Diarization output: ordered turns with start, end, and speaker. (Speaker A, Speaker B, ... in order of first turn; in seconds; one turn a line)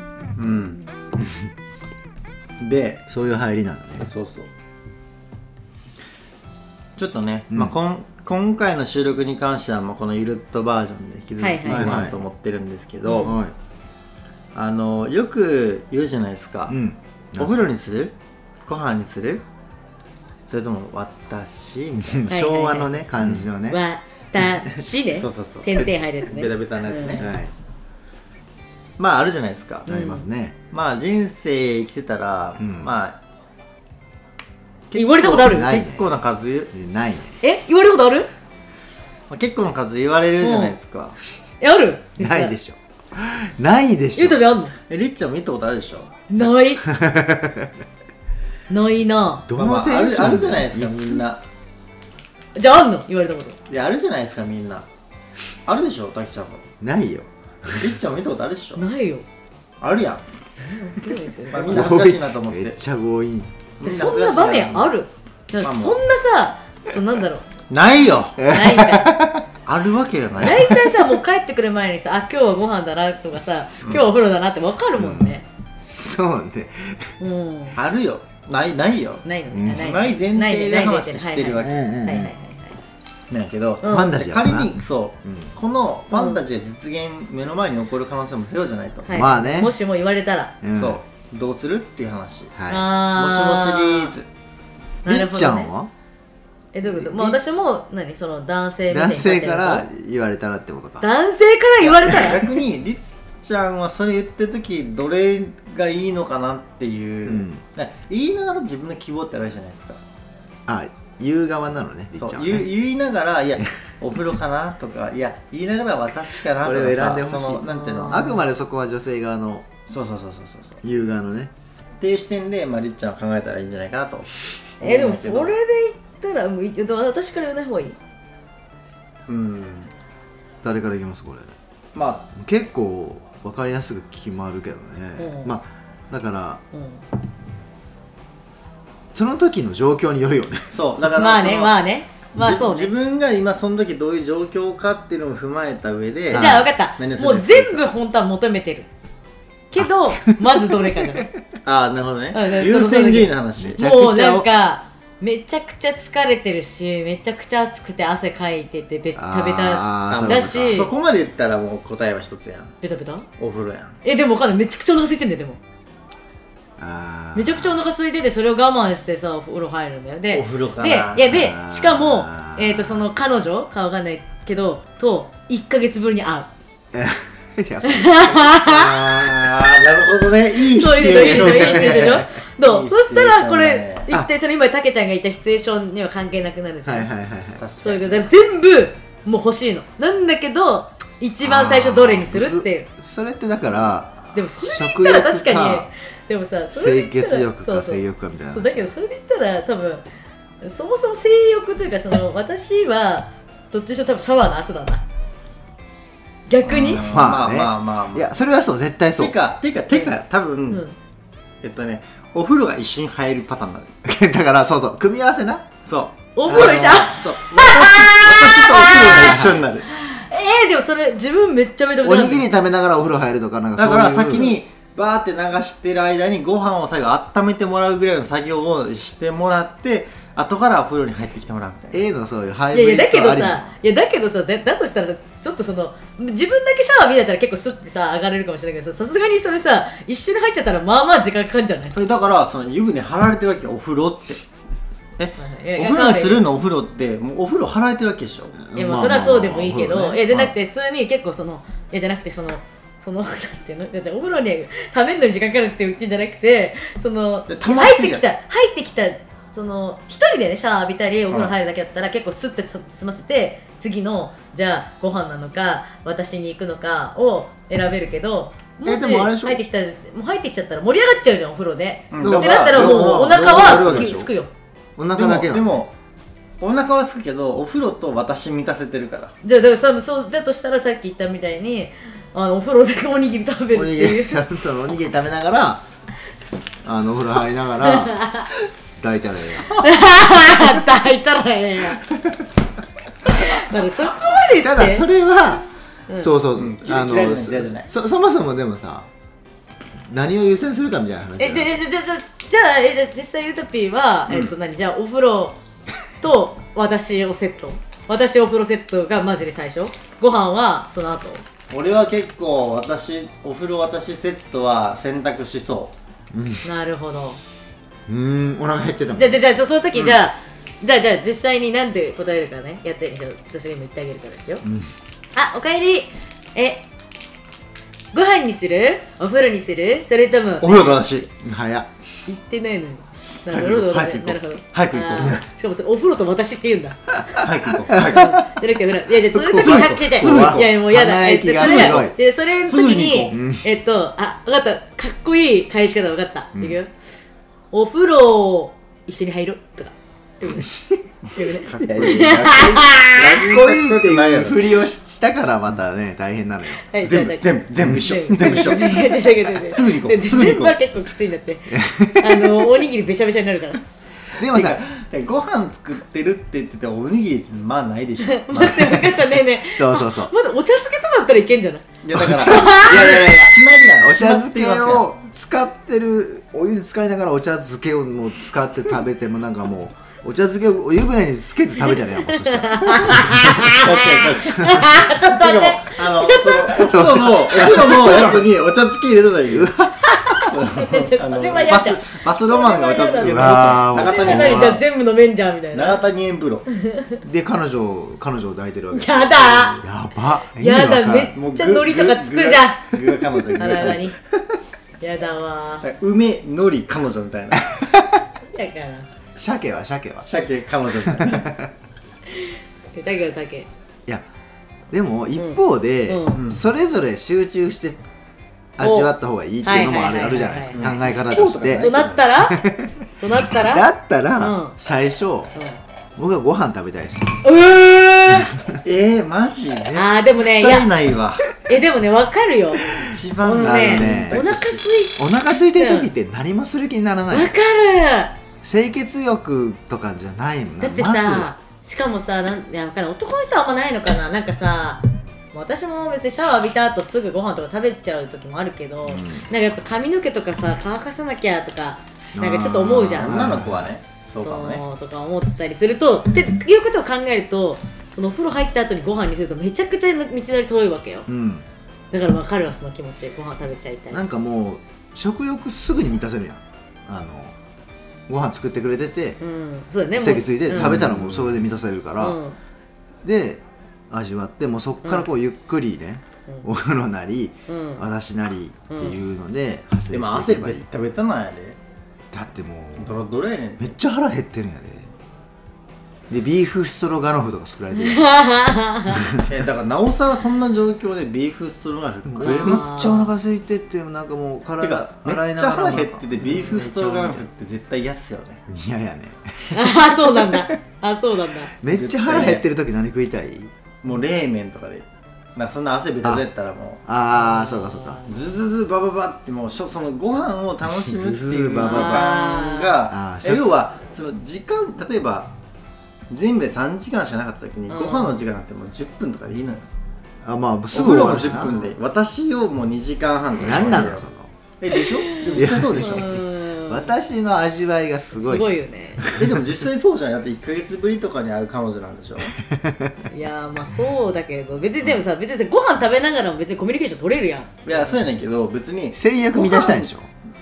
Speaker A: 0.4-0.8
Speaker A: 2.6-3.0
Speaker B: 3.1-4.1
Speaker A: 4.0-4.5
Speaker A: 7.0-13.4
Speaker C: 11.4-12.1
Speaker B: 11.7-12.2
Speaker C: 13.1-13.4
Speaker B: 13.2-13.5
Speaker A: 14.6-16.8
Speaker B: 16.7-17.7
Speaker A: 17.4-18.1
Speaker A: 18.6-19.4
Speaker A: 20.5-22.4
Speaker B: 22.0-23.8
Speaker C: 22.3-23.0
Speaker A: 23.2-23.5
Speaker C: 23.7-27.2
Speaker A: 25.2-27.3
Speaker B: 27.2-27.5
Speaker A: 29.0-29.9
Speaker C: 29.9-30.2
Speaker B: 29.9-30.6
Speaker A: 30.7-33.2
Speaker B: 32.6-32.9
Speaker A: 34.9-36.7
Speaker C: 35.0-35.8
Speaker B: 35.2-36.1
Speaker B: 36.7-37.4
Speaker C: 37.4-38.3
Speaker A: 39.3-41.2
Speaker C: 40.4-40.8
Speaker C: 41.6-42.5
Speaker B: 42.2-44.4
Speaker C: 44.1-44.7
Speaker A: 44.9-46.2
Speaker C: 46.3-46.9
Speaker B: 46.8-47.7
Speaker C: 48.7-49.5
Speaker B: 49.5-51.2
Speaker A: 49.5-51.4
Speaker C: 52.6-53.6
Speaker A: 53.7-54.9
Speaker A: 55.7-56.6
Speaker B: 56.8-58.0
Speaker A: 57.8-58.9
Speaker C: 58.8-59.2
Speaker A: 59.8-60.2
Speaker C: 60.6-61.9
Speaker A: 61.5-62.8
Speaker B: 61.7-63.5
Speaker A: 63.8-64.9
Speaker C: 63.8-67.5
Speaker A: 65.6-66.0
Speaker A: 67.7-68.5
Speaker B: 68.4-69.4
Speaker C: 68.4-69.2
Speaker A: 69.7-70.8
Speaker C: 70.4-75.5
Speaker B: 75.0-77.1
Speaker C: 77.2-77.8
Speaker A: 77.8-81.9
Speaker C: 79.2-82.8
Speaker B: 79.5-79.8
Speaker B: 81.6-82.3
Speaker A: 83.3-89.2
Speaker C: 83.8-84.2
Speaker B: 83.9-85.5
Speaker C: 86.1-86.4
Speaker C: 89.1-90.5
Speaker B: 89.1-89.8
Speaker B: 90.6-91.0
Speaker A: 90.8-92.5
Speaker B: 92.6-92.9
Speaker C: 92.7-94.1
Speaker A: 93.1-94.3
Speaker C: 95.0-95.7
Speaker B: 95.1-95.9
Speaker C: 96.7-99.9
Speaker B: 96.8-97.4
Speaker B: 98.9-101.1
Speaker C: 101.0-102.4
Speaker B: 101.9-102.5
Speaker A: 102.0-110.0
Speaker B: 107.2-107.6
Speaker B: 110.7-112.7
Speaker A: 112.2-118.4
Speaker B: 116.6-119.7
Speaker C: 117.7-118.4
Speaker A: 119.9-120.8
Speaker B: 120.8-121.5
Speaker A: 122.0-124.3
Speaker A: 124.8-125.5
Speaker C: 124.8-128.0
Speaker A: 129.3-129.9
Speaker B: 130.6-131.5
Speaker A: 131.9-132.3
Speaker B: 132.3-136.6
Speaker C: 135.2-135.5
Speaker C: 136.7-137.0
Speaker B: 139.1-140.8
Speaker A: 140.7-141.8
Speaker C: 141.2-142.9
Speaker A: 142.4-147.9
Speaker B: 146.3-146.7
Speaker C: 146.3-148.9
Speaker C: 149.7-151.3
Speaker A: 151.6-153.8
Speaker C: 152.3-160.9
Speaker B: 153.6-154.5
Speaker B: 159.2-160.9
Speaker A: 160.1-162.8
Speaker C: 162.8-163.3
Speaker A: 163.4-164.0
Speaker C: 164.0-165.6
Speaker B: 166.8-167.8
Speaker C: 167.3-176.5
Speaker A: 170.3-171.3
Speaker B: 171.2-173.1
Speaker B: 176.9-179.7
Speaker C: 177.8-179.0
Speaker A: 178.8-184.1
Speaker C: 180.6-187.1
Speaker B: 181.0-182.3
Speaker B: 186.8-187.6
Speaker A: 187.6-188.3
Speaker C: 187.8-192.9
Speaker B: 191.4-195.9
Speaker C: 194.3-200.0
Speaker B: 196.7-198.9
Speaker C: 200.6-205.0
Speaker C: 206.5-207.1
Speaker A: 206.7-208.3
Speaker B: 206.8-209.4
Speaker A: 209.2-210.8
Speaker A: 211.6-213.9
Speaker B: 214.0-215.7
Speaker A: 215.9-219.9
Speaker C: 216.4-222.5
Speaker B: 216.5-217.2
Speaker B: 219.0-219.6
Speaker B: 222.0-224.5
Speaker A: 223.8-232.1
Speaker B: 231.9-233.8
Speaker C: 232.7-242.0
Speaker A: 241.9-244.4
Speaker A: 245.2-248.6
Speaker C: 245.4-246.4
Speaker B: 248.6-250.4
Speaker C: 248.8-274.5
Speaker A: 257.5-258.2
Speaker B: 268.9-269.6
Speaker A: 272.1-274.1
Speaker B: 272.2-274.3
Speaker B: 275.0-275.7
Speaker A: 275.1-275.9
Speaker A: 276.6-279.4
Speaker C: 279.4-284.4
Speaker B: 283.7-285.9
Speaker B: 286.8-288.3
Speaker C: 287.8-288.5
Speaker B: 289.0-289.8
Speaker C: 289.8-292.0
Speaker C: 293.3-295.1
Speaker B: 294.6-295.6
Speaker B: 296.2-299.1
Speaker A: 296.6-297.9
Speaker B: 300.1-301.8
Speaker C: 301.4-305.6
Speaker C: 306.2-311.4
Speaker A: 311.7-315.9
Speaker B: 316.3-316.6
Speaker C: 316.6-317.4
Speaker B: 318.1-319.4
Speaker C: 319.1-324.6
Speaker B: 324.6-324.9
Speaker C: 325.4-326.9
Speaker C: 328.1-331.0
Speaker A: 330.6-331.3
Speaker B: 331.4-331.9
Speaker C: 332.3-337.4
Speaker B: 333.5-334.4
Speaker A: 334.7-335.4
Speaker B: 335.2-335.4
Speaker B: 337.4-338.5
Speaker A: 337.4-338.3
Speaker C: 338.0-346.9
Speaker B: 339.2-342.1
Speaker A: 339.6-340.8
Speaker A: 341.6-343.4
Speaker B: 343.3-343.6
Speaker C: 347.7-350.7
Speaker B: 350.5-351.0
Speaker C: 351.4-353.3
Speaker A: 351.5-352.4
Speaker B: 351.8-356.9
Speaker A: 353.0-354.8
Speaker C: 356.8-363.8
Speaker A: 357.0-360.8
Speaker B: 357.9-358.8
Speaker B: 361.7-362.8
Speaker B: 364.4-364.8
Speaker A: 364.4-369.2
Speaker C: 368.2-371.9
Speaker B: 369.7-370.3
Speaker A: 372.0-375.1
Speaker B: 372.1-383.8
Speaker C: 372.4-373.2
Speaker C: 382.4-388.0
Speaker A: 383.6-389.8
Speaker B: 386.7-388.5
Speaker B: 389.5-390.4
Speaker C: 390.1-396.0
Speaker A: 390.4-394.8
Speaker B: 393.2-394.8
Speaker A: 395.7-396.7
Speaker C: 396.7-397.2
Speaker B: 397.2-401.3
Speaker C: 398.9-399.8
Speaker A: 399.3-399.8
Speaker C: 400.6-402.9
Speaker A: 401.4-404.1
Speaker C: 403.6-404.1
Speaker C: 405.0-405.9
Speaker A: 405.8-407.7
Speaker B: 407.7-408.2
Speaker C: 408.5-409.1
Speaker B: 409.4-410.3
Speaker A: 410.3-411.5
Speaker B: 411.1-411.7
Speaker C: 412.4-413.7
Speaker B: 414.9-418.0
Speaker C: 415.4-416.4
Speaker A: 416.3-416.6
Speaker B: 418.8-421.9
Speaker C: 418.8-421.2
Speaker A: 420.7-422.3
Speaker C: 421.8-422.6
Speaker B: 422.4-425.5
Speaker C: 423.2-424.8
Speaker B: 426.2-427.4
Speaker C: 427.4-428.5
Speaker A: 428.8-431.5
Speaker C: 429.9-430.9
Speaker C: 431.6-436.1
Speaker A: 432.9-434.9
Speaker B: 433.6-434.5
Speaker B: 435.2-437.5
Speaker C: 437.3-438.4
Speaker B: 438.6-441.5
Speaker C: 440.8-453.4
Speaker B: 449.1-449.5
Speaker B: 452.4-453.9
Speaker A: 453.2-454.8
Speaker C: 454.4-461.3
Speaker B: 461.3-461.7
Speaker C: 462.1-464.2
Speaker B: 464.1-467.6
Speaker B: 468.3-469.4
Speaker C: 469.4-471.0
Speaker B: 470.2-472.4
Speaker A: 470.8-471.6
Speaker C: 472.2-472.6
Speaker B: 473.2-480.8
Speaker C: 477.7-478.0
Speaker C: 478.9-479.2
Speaker A: 480.1-481.8
Speaker B: 482.3-483.2
Speaker A: 483.0-483.9
Speaker B: 483.8-485.1
Speaker B: 486.3-488.3
Speaker C: 488.0-489.3
Speaker B: 489.1-489.5
Speaker A: 489.4-492.9
Speaker B: 492.3-497.4
Speaker C: 492.4-493.3
Speaker A: 494.8-498.6
Speaker C: 496.4-496.7
Speaker B: 498.7-500.7
Speaker C: 499.7-501.7
Speaker B: 501.8-503.7
Speaker A: 501.9-502.6
Speaker A: 504.0-507.0
Speaker B: 507.1-508.2
Speaker C: 507.3-508.5
Speaker A: 508.3-515.5
Speaker B: 511.0-512.3
Speaker C: 511.8-513.0
Speaker B: 513.1-513.7
Speaker A: 516.3-519.9
Speaker C: 517.9-518.4
Speaker B: 520.4-521.7
Speaker A: 520.9-524.2
Speaker C: 521.6-521.9
Speaker B: 523.6-524.5
Speaker A: 524.8-526.4
Speaker C: 524.9-527.1
Speaker B: 525.4-529.6
Speaker C: 528.3-529.4
Speaker A: 529.3-532.5
Speaker B: 532.6-533.2
Speaker C: 533.3-538.2
Speaker A: 537.9-540.1
Speaker B: 539.1-540.3